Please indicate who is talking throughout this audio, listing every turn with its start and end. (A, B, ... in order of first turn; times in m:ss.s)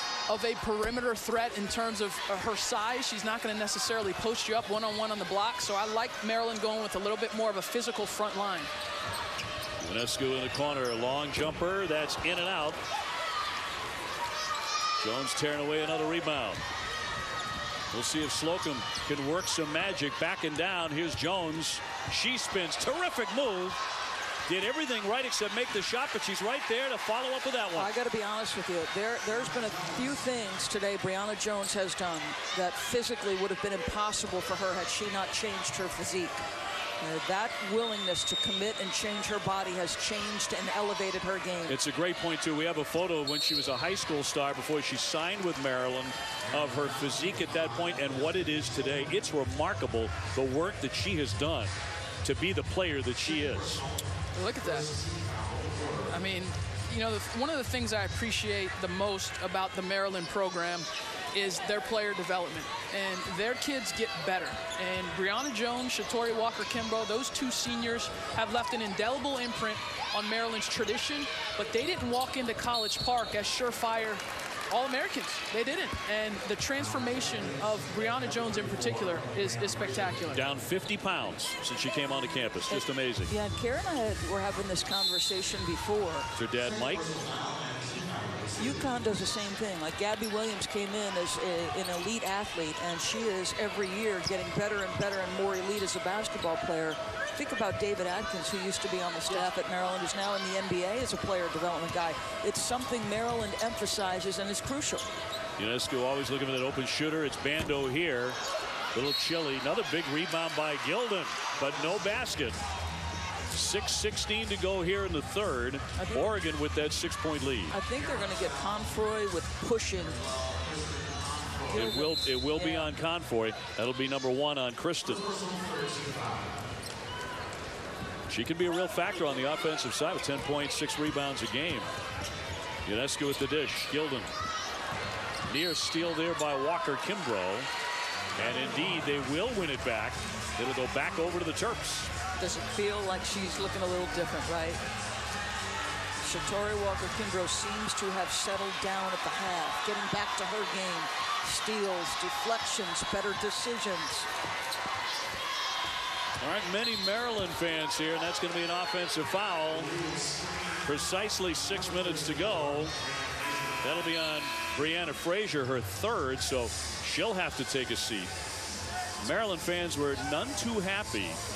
0:00.3-0:08.7 A
0:09.8-0:12.8 B
0:15.0-0:16.6 B
0:17.9-0:23.8 B
0:24.5-0:27.9 B
0:27.7-0:36.4 C
0:37.0-0:41.8 C
0:41.7-0:53.8 B
0:54.3-0:54.9 A
0:56.1-1:20.4 A
1:20.3-1:23.3 B
1:22.7-1:26.3 C
1:26.3-1:27.1 B
1:28.6-1:45.1 C
1:45.6-1:48.4 B
1:48.9-1:52.6 B
1:53.5-1:57.8 B
1:56.0-1:56.3 C
1:57.7-2:00.2 C
2:01.7-2:02.9 C
2:01.7-2:05.3 B
2:08.3-2:11.9 B
2:12.8-2:14.3 B
2:15.5-2:17.7 B
2:18.4-2:22.1 B
2:22.4-2:24.8 C
2:26.2-2:34.3 C
2:36.4-2:39.9 B
2:40.8-2:43.0 B
2:43.8-2:48.3 B
2:49.2-2:51.4 B